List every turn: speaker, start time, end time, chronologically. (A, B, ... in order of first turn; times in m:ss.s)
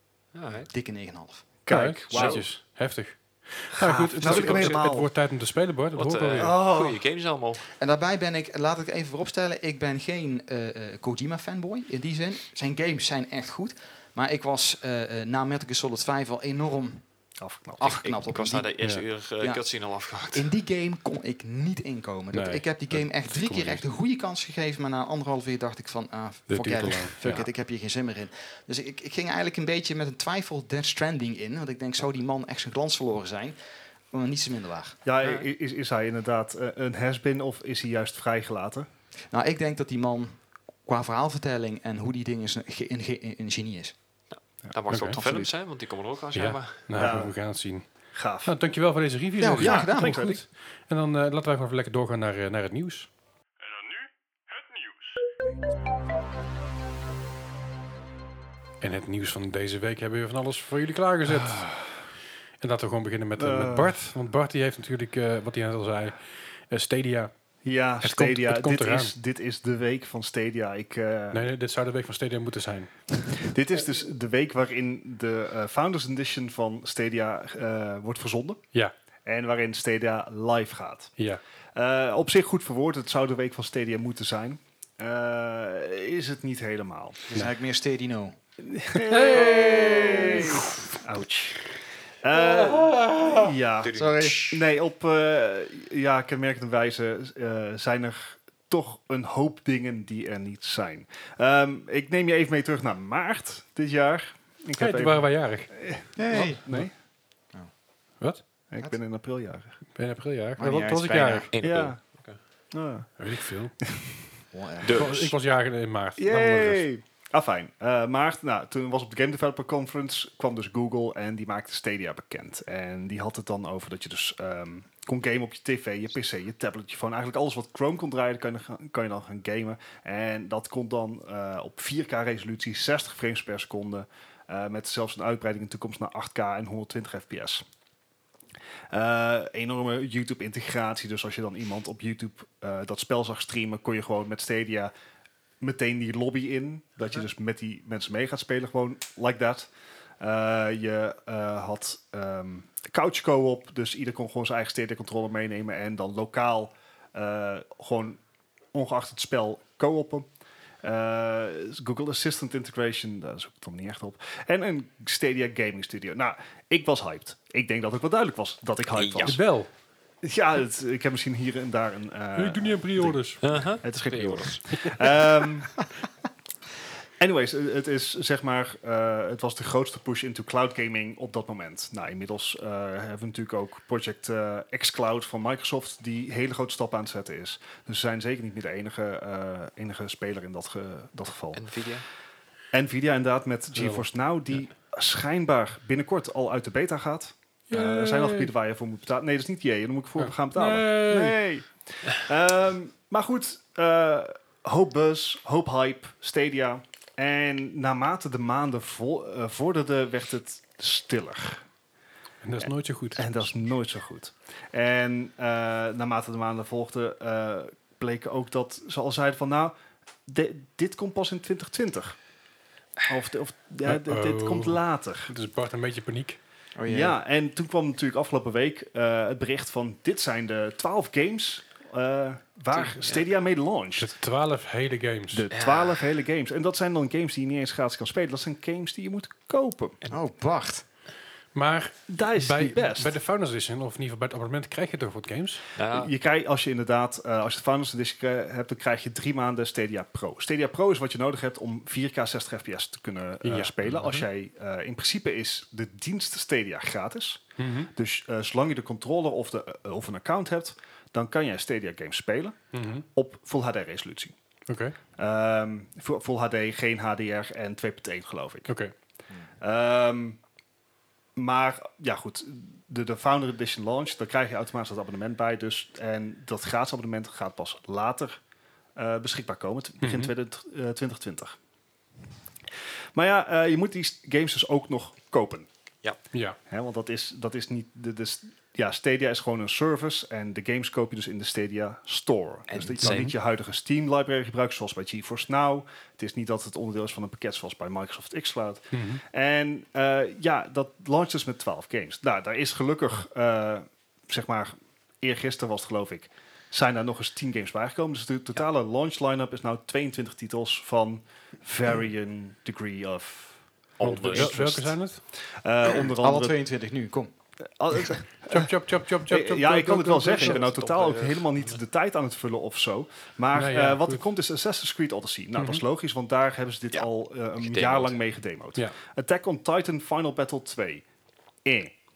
0:00.3-0:00.7 A
0:00.7-0:01.6 B
0:01.7-0:02.5 C
0:01.7-0:06.6 D
0:02.1-0:02.4 A
0:04.1-0:04.8 A
0:04.1-0:05.1 C
0:06.0-0:07.7 A
0:06.4-0:07.0 C
0:07.8-0:17.2 B
0:17.4-0:17.9 C
0:17.8-0:18.7 B
0:17.8-0:20.5 A
0:19.4-0:33.6 B
0:22.3-0:23.9 D
0:26.5-0:27.5 D
0:34.1-0:35.0 B
0:35.0-0:38.9 C
0:35.2-0:35.5 A
0:39.3-0:44.0 B
0:44.3-0:46.9 A
0:44.6-0:45.5 C
0:44.9-0:45.2 D
0:46.3-0:53.1 D
0:47.0-0:47.4 C
0:48.1-0:48.5 C
0:49.4-0:50.3 B
0:49.5-0:50.4 C
0:58.8-1:01.8 D
1:01.3-1:01.8 C
1:02.6-1:07.3 D
1:03.4-1:04.0 C
1:07.6-1:11.4 C
1:08.0-1:09.2 D
1:11.3-1:13.3 D
1:13.4-1:18.6 C
1:19.3-1:21.2 C
1:21.8-1:27.3 C
1:27.3-1:28.4 B
1:28.6-1:46.9 C
1:29.3-1:30.2 A
1:29.3-1:30.6 B
1:33.8-1:34.6 A
1:34.0-1:34.5 B
1:44.8-1:46.1 D
1:46.2-1:46.8 B
1:48.7-1:49.8 C
1:50.0-1:51.5 D
1:50.6-1:51.5 B
1:51.5-1:52.4 A
1:51.6-1:52.0 C
1:52.7-1:53.3 C
1:53.2-1:54.1 D
1:53.8-1:54.1 C
1:54.5-1:55.1 B
1:54.8-1:55.3 A
1:54.9-1:56.9 D
1:56.2-2:17.6 C
2:18.9-2:24.9 C
2:25.6-2:29.7 C
2:30.2-2:38.2 C
2:38.7-2:40.3 C
2:40.8-2:49.4 C
2:48.9-2:49.4 A
2:49.2-2:49.7 D
2:50.2-2:55.8 C
2:52.4-2:53.4 D
2:53.4-2:54.9 A
2:57.2-3:11.6 C
3:11.5-3:12.0 A
3:12.7-3:31.6 C
3:13.8-3:14.0 D
3:17.7-3:18.5 D
3:20.2-3:21.4 D
3:32.4-3:33.5 D
3:32.6-3:39.7 C
3:40.3-3:42.2 C
3:43.1-3:45.3 C
3:43.8-3:46.4 D
3:46.8-3:47.2 B
3:46.9-3:54.1 C
3:52.7-3:53.2 A
3:54.0-3:55.5 D
3:55.3-4:00.0 C
3:55.5-3:56.1 A
4:00.1-4:00.9 B
4:01.6-4:05.6 D
4:02.1-4:03.2 C
4:05.8-4:06.1 A
4:05.9-4:24.4 C
4:13.4-4:14.2 D
4:17.6-4:17.9 D
4:22.7-4:23.0 D
4:24.7-4:25.0 D
4:25.2-4:28.7 C
4:28.7-4:28.9 D
4:29.6-4:30.4 C
4:31.4-4:38.4 C
4:39.0-4:41.6 C
4:40.0-4:40.3 D
4:43.2-4:45.7 C
4:46.3-4:46.6 D
4:46.7-5:16.6 C
4:52.7-4:53.3 A
4:53.0-4:53.3 D
4:58.9-4:59.2 D
5:14.0-5:14.7 A
5:14.0-5:15.2 D
5:16.2-5:17.4 B
5:17.7-5:18.7 C
5:18.0-5:18.2 B
5:18.5-5:20.6 D
5:19.3-5:31.0 C
5:20.3-5:21.8 A
5:23.5-5:24.3 D
5:25.6-5:25.8 D
5:26.9-5:28.2 A
5:31.6-5:32.0 C